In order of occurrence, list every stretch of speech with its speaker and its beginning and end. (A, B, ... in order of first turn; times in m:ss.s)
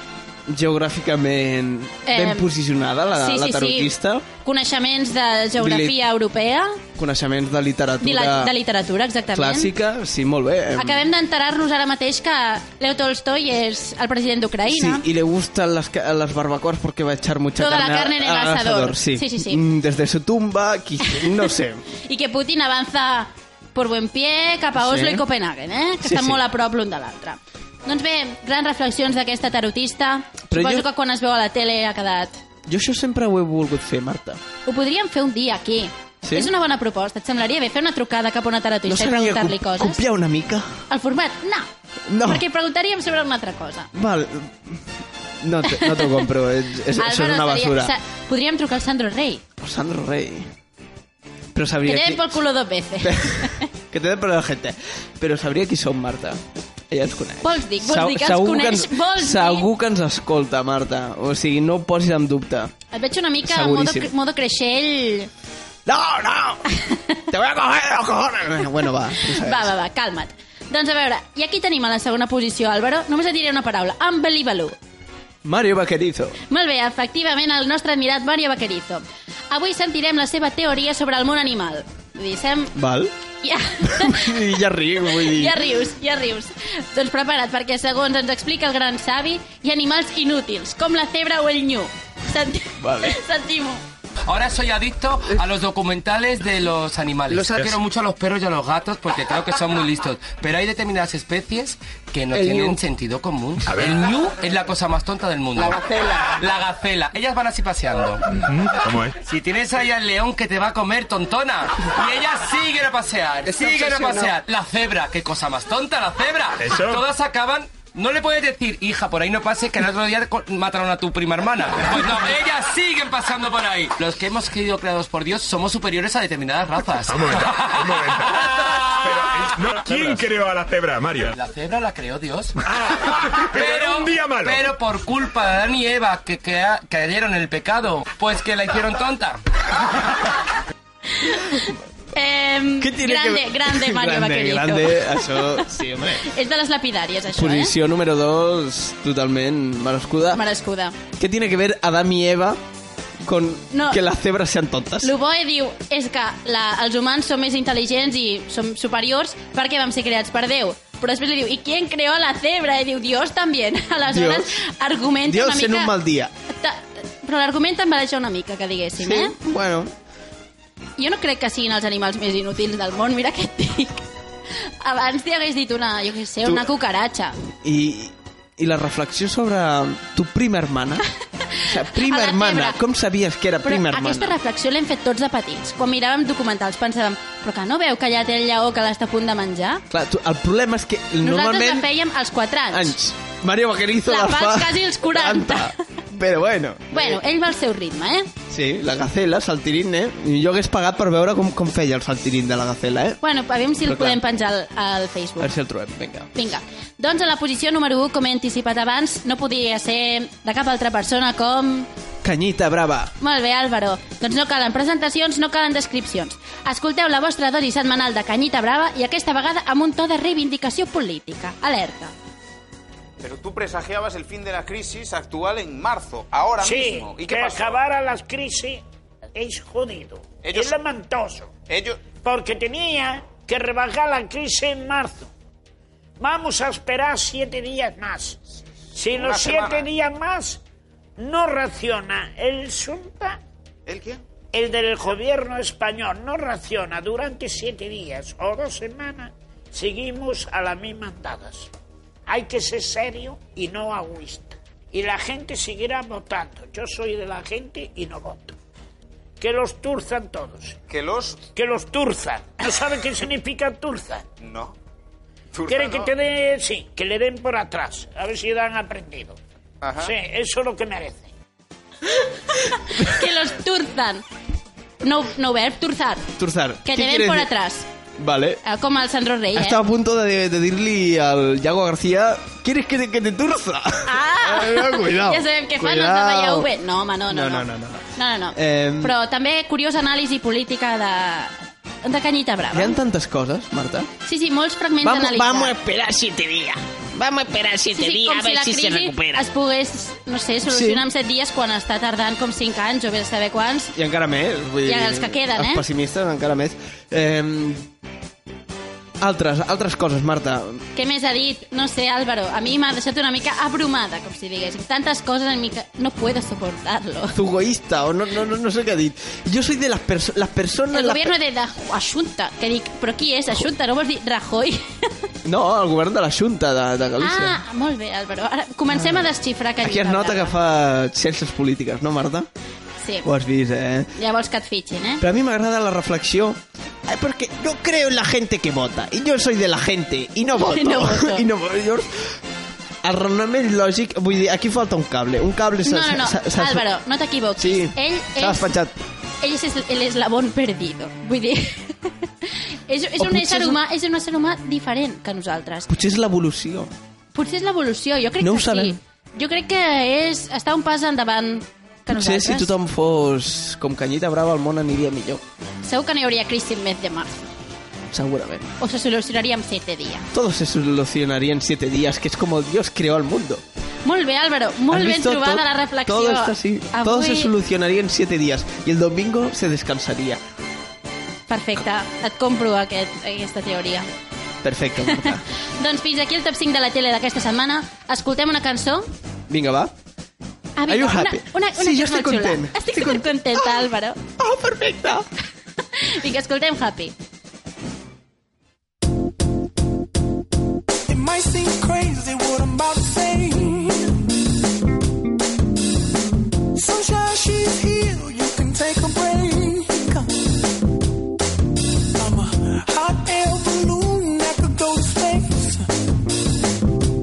0:00.5-0:04.2 A
0:02.1-0:02.5 B
0:03.2-0:06.8 B
0:05.6-0:06.0 A
0:07.0-0:08.5 A
0:08.0-0:09.7 B
0:09.3-0:11.1 A
0:10.8-0:15.0 B
0:14.7-0:21.8 A
0:17.6-0:19.6 B
0:21.1-0:21.5 B
0:22.0-0:32.4 B
0:24.8-0:25.2 A
0:26.0-0:26.4 A
0:30.5-0:30.9 A
0:32.7-0:34.4 A
0:34.7-0:40.0 B
0:36.2-0:36.5 A
0:38.9-0:40.8 A
0:40.9-0:41.7 B
0:42.1-0:42.4 A
0:42.2-0:43.9 B
0:43.9-0:44.9 A
0:45.4-0:47.9 A
0:45.7-0:46.3 B
0:47.0-0:49.4 B
0:49.6-0:50.5 A
0:51.6-0:52.4 A
0:51.8-0:53.7 B
0:53.0-1:02.7 A
0:57.4-0:59.7 B
1:02.9-1:05.3 B
1:03.5-1:04.1 A
1:05.9-1:06.6 A
1:07.3-1:09.7 A
1:09.2-1:14.8 B
1:15.4-1:16.4 A
1:16.5-1:22.7 B
1:22.8-1:23.1 A
1:23.4-1:24.4 B
1:23.8-1:25.6 A
1:25.0-1:33.8 B
1:32.8-1:33.2 A
1:34.3-1:48.3 C
1:48.4-1:49.2 D
1:49.2-2:09.3 C
1:56.6-1:57.0 D
2:07.1-2:11.4 D
2:09.8-2:10.2 C
2:11.3-2:12.6 C
2:12.6-2:14.7 D
2:13.3-2:19.4 C
2:21.2-2:25.7 B
2:22.8-2:26.3 A
2:26.2-2:27.7 B
2:27.3-2:30.4 A
2:30.3-2:31.0 B
2:31.2-2:32.6 A
2:33.2-2:35.1 A
2:33.7-2:34.0 B
2:35.0-2:45.9 B
2:44.1-2:44.6 A
2:45.3-2:46.3 A
2:46.5-2:49.4 B
2:49.0-2:49.9 A
2:51.0-2:54.0 B
2:54.8-2:57.4 B
2:56.4-2:56.7 A
2:57.6-3:01.0 A
3:01.6-3:04.4 A
3:01.6-3:02.8 B
3:03.6-3:09.8 B
3:09.9-3:11.9 A
3:11.2-3:13.0 B
3:12.7-3:17.2 A
3:14.1-3:15.7 B
3:16.9-3:18.3 B
3:18.5-3:23.2 A
3:23.2-3:25.5 B
3:23.8-3:24.2 A
3:25.4-3:26.3 A
3:26.3-3:31.9 B
3:32.2-3:33.1 A
3:33.2-3:42.1 B
3:43.2-3:47.8 E
3:46.6-3:48.8 F
3:49.4-3:51.5 F
3:50.4-3:50.8 E
3:51.7-3:52.0 E
3:52.2-3:55.3 F
3:56.2-3:58.4 F
3:59.0-4:00.6 F
3:59.1-3:59.8 E
4:01.2-4:03.4 F
4:03.9-4:04.2 E
4:04.5-4:11.7 F
4:12.3-4:18.6 F
4:19.4-4:20.8 F
4:20.9-4:21.4 E
4:21.5-4:24.2 F
4:24.4-4:24.7 E
4:25.6-4:26.1 E
4:25.7-4:29.4 F
4:29.8-4:30.1 E
4:30.0-4:31.3 F
4:32.6-4:34.2 B
4:35.0-4:36.3 B
4:36.4-4:37.5 A
4:36.8-4:37.9 B
4:38.2-4:38.6 A
4:38.6-4:39.8 B
4:39.5-4:46.7 A
4:44.1-4:53.0 B
4:47.3-4:49.2 A
4:52.7-4:54.1 A
4:54.2-4:55.8 B
4:55.0-4:59.5 A
4:57.9-5:03.9 B
5:00.7-5:01.0 A
5:04.0-5:07.9 A
5:04.9-5:05.8 B
5:09.2-5:10.8 A
5:11.0-5:17.4 B
5:17.3-5:21.3 A
5:20.9-5:25.0 B
5:25.4-5:27.6 A
5:27.2-5:30.5 B
5:28.9-5:29.3 A
5:29.8-5:32.5 A
5:33.2-5:34.1 A
5:34.2-5:35.2 B
5:35.2-5:42.4 A
5:40.5-5:41.4 B
5:43.0-5:46.8 A
5:45.8-5:48.7 B
5:47.6-5:49.0 A
5:49.4-5:55.9 B
5:53.2-5:53.8 A
5:55.9-5:56.9 A
5:57.3-6:02.7 B
5:58.4-5:59.0 A
6:02.1-6:05.4 A
6:05.8-6:07.4 B
6:08.1-6:08.7 A
6:08.8-6:10.3 B
6:10.3-6:13.6 A
6:14.0-6:17.5 B
6:14.9-6:20.4 A
6:21.5-6:24.1 B
6:24.6-6:25.4 A
6:25.1-6:29.1 B
6:29.5-6:29.9 A
6:30.8-6:34.2 B
6:30.9-6:33.8 A
6:34.4-6:35.3 A
6:36.0-6:37.1 B
6:41.1-6:44.2 G
6:46.7-6:50.3 G
6:52.2-6:55.9 G